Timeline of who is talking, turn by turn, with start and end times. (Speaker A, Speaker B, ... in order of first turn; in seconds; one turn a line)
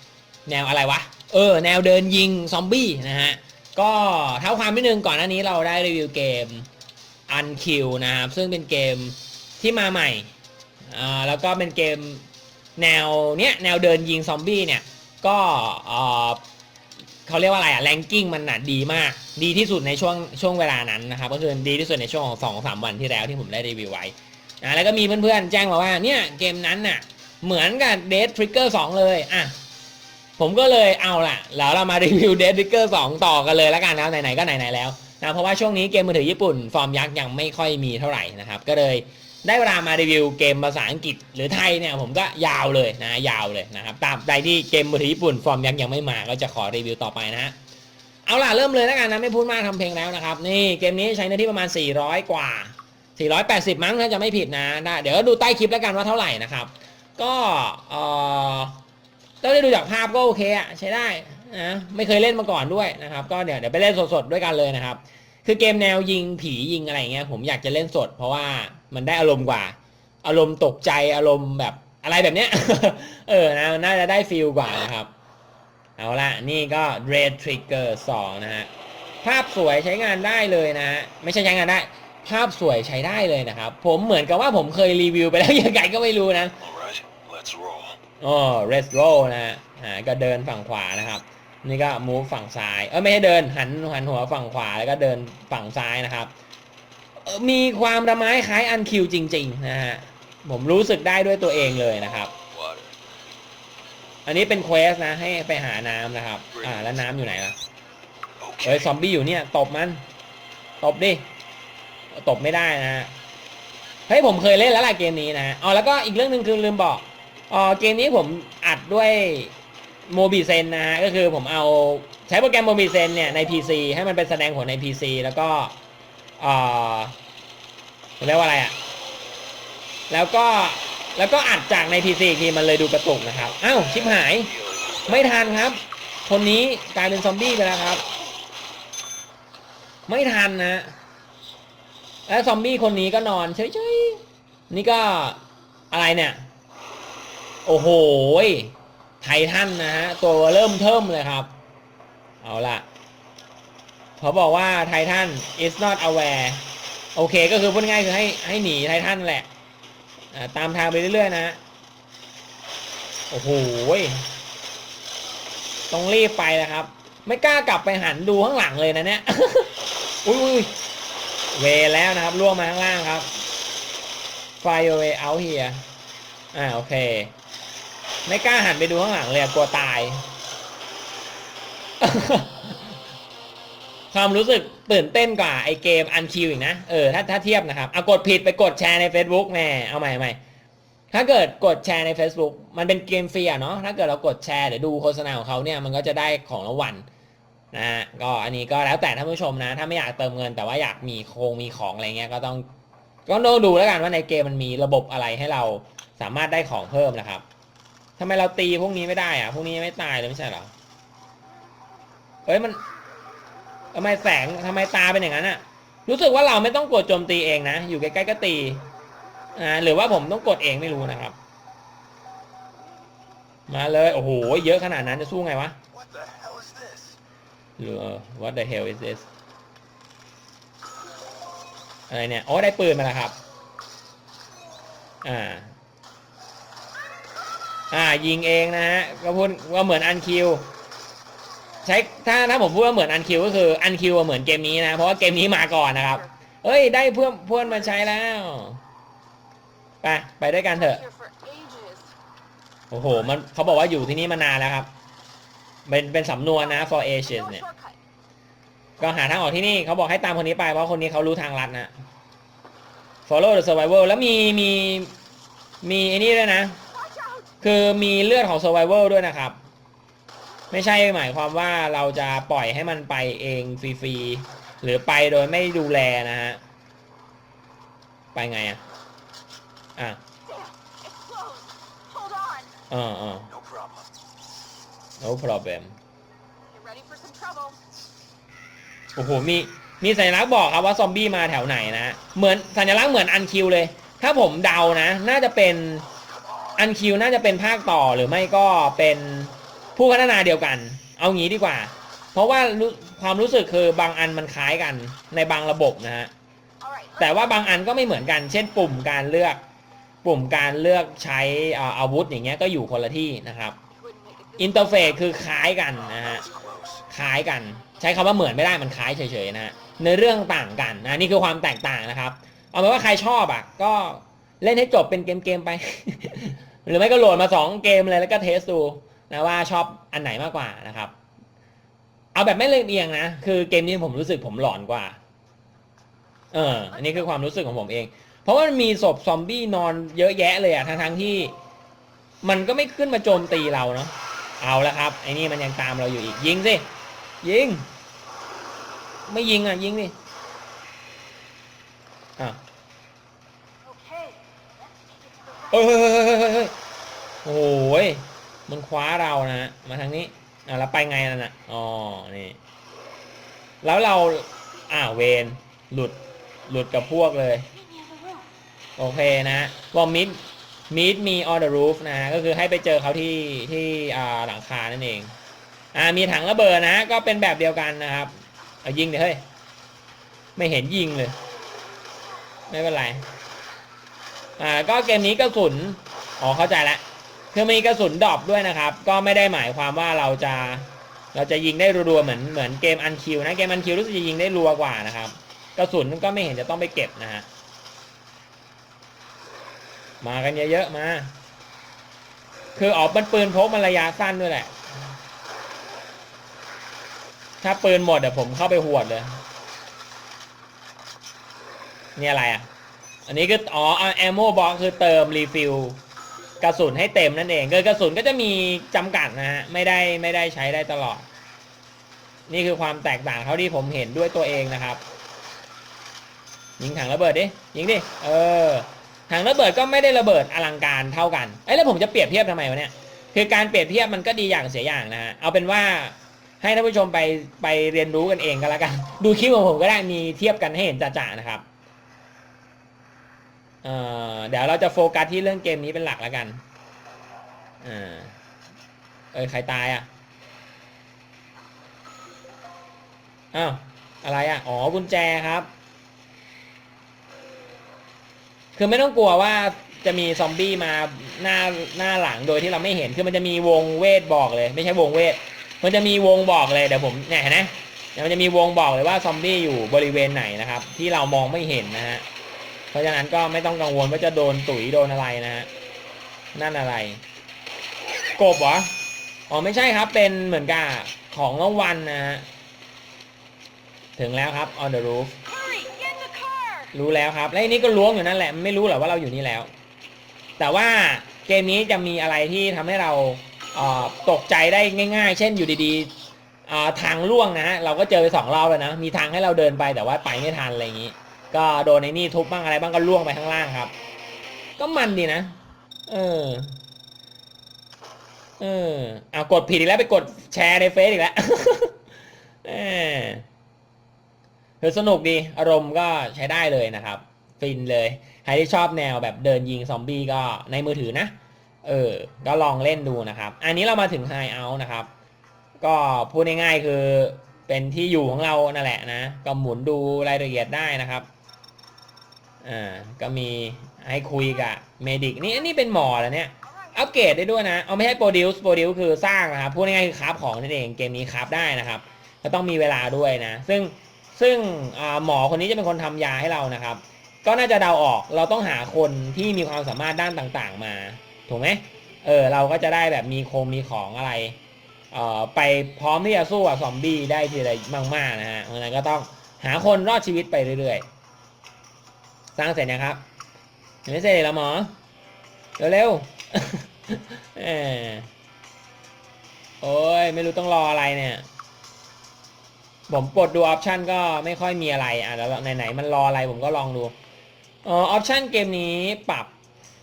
Speaker A: 0.5-6.7
Speaker A: 7.3-10.3
Speaker A: 10.9-12.2
Speaker A: 12.8-16.4
Speaker A: 17.3-29.6
Speaker A: 30.4-47.5
Speaker A: 48.2-58.8
Speaker A: 59.4-75.1
Speaker A: 76.0-78.7
Speaker A: 79.2-86.6
Speaker B: 86.6-88.0
Speaker A: 88.2-96.3
Speaker A: 97.2-102.3
Speaker B: 102.5-103.1
Speaker A: 104.3-107.6
Speaker B: 106.5-107.0
Speaker B: 108.4-109.0
Speaker A: 108.6-110.0
Speaker A: 110.8-111.3
Speaker A: 112.1-113.1
Speaker A: 114.1-119.5
Speaker A: 120.1-125.8
Speaker A: 126.4-127.2
Speaker A: 128.2-128.8
Speaker A: 130.1-134.6
Speaker B: 134.5-135.2
Speaker A: 135.1-138.1
Speaker A: 140.1-141.0
Speaker A: 142.3-145.4
Speaker A: 145.9-146.4
Speaker A: 147.7-151.5
Speaker A: 152.4-152.8
Speaker A: 154.2-156.6
Speaker A: 157.2-159.5
Speaker A: 160.3-161.6
Speaker A: 163.3-164.3
Speaker A: 165.9-169.7
Speaker A: 170.2-170.7
Speaker A: 171.5-173.3
Speaker A: 174.6-175.8
Speaker A: 176.5-177.3
Speaker A: 178.3-180.2
Speaker A: 182.0-182.9
Speaker A: 184.1-190.4
Speaker A: 191.1-197.1
Speaker A: 197.7-202.7
Speaker A: 203.3-207.4
Speaker A: 208.2-210.7
Speaker A: 212.5-212.8
Speaker A: 213.9-218.8
Speaker A: 219.6-221.4
Speaker A: 223.7-225.8
Speaker B: 225.9-227.2
Speaker A: 227.8-229.3
Speaker A: 232.1-233.4
Speaker A: 235.2-235.7
Speaker A: 237.9-240.7
Speaker A: 241.8-248.8
Speaker C: 246.0-246.3
Speaker A: 250.0-251.0
Speaker C: 250.7-252.1
Speaker A: 252.9-254.9
Speaker A: 255.9-257.6
Speaker C: 256.6-258.0
Speaker A: 259.0-261.9
Speaker A: 263.3-265.1
Speaker A: 265.8-266.8
Speaker C: 266.9-267.5
Speaker A: 267.6-269.6
Speaker A: 270.7-276.6
Speaker A: 278.4-278.8
Speaker C: 280.4-282.7
Speaker A: 282.9-283.5
Speaker B: 283.5-284.1
Speaker A: 285.2-286.0
Speaker C: 286.7-287.8
Speaker A: 289.2-296.1
Speaker A: 296.8-306.3
Speaker C: 306.8-307.5
Speaker A: 307.2-309.6
Speaker A: 310.2-313.8
Speaker C: 313.9-315.6
Speaker A: 314.6-316.5
Speaker B: 316.1-317.0
Speaker A: 317.1-331.1
Speaker A: 332.4-335.2
Speaker A: 336.5-341.5
Speaker A: 342.4-346.9
Speaker A: 347.4-347.9
Speaker A: 349.3-350.1
Speaker C: 353.8-354.4
Speaker C: 355.4-355.7
Speaker A: 355.7-356.7
Speaker A: 357.4-362.6
Speaker A: 363.8-367.7
Speaker C: 368.1-368.4
Speaker A: 369.0-375.3
Speaker A: 375.9-378.3
Speaker A: 378.8-379.4
Speaker A: 380.6-381.4
Speaker A: 382.7-383.3
Speaker A: 384.6-387.0
Speaker A: 387.5-397.5
Speaker A: 400.2-401.3
Speaker A: 402.8-404.7
Speaker A: 407.6-409.4
Speaker A: 412.2-412.7
Speaker A: 413.3-416.0
Speaker A: 416.6-421.3
Speaker A: 422.5-425.0
Speaker A: 426.8-441.6
Speaker A: 443.8-446.6
Speaker A: 447.8-448.4
Speaker A: 449.3-450.1
Speaker A: 453.5-455.7
Speaker A: 458.8-472.2
Speaker A: 472.9-475.7
Speaker A: 476.5-477.2
Speaker A: 478.4-478.9
Speaker A: 479.5-482.5
Speaker A: 484.2-485.3
Speaker C: 485.5-486.9
Speaker A: 486.9-489.7
Speaker A: 490.6-496.1
Speaker A: 496.7-503.9
Speaker A: 504.8-505.6
Speaker A: 506.1-506.8
Speaker A: 508.6-512.0
Speaker A: 512.6-513.5
Speaker A: 514.8-525.1
Speaker A: 525.8-531.3
Speaker A: 532.6-554.6
Speaker C: 536.7-537.1
Speaker A: 555.1-561.1
Speaker A: 562.6-563.2
Speaker A: 564.0-564.9
Speaker A: 565.8-568.3
Speaker A: 569.8-571.5
Speaker A: 573.1-577.1
Speaker A: 577.8-579.5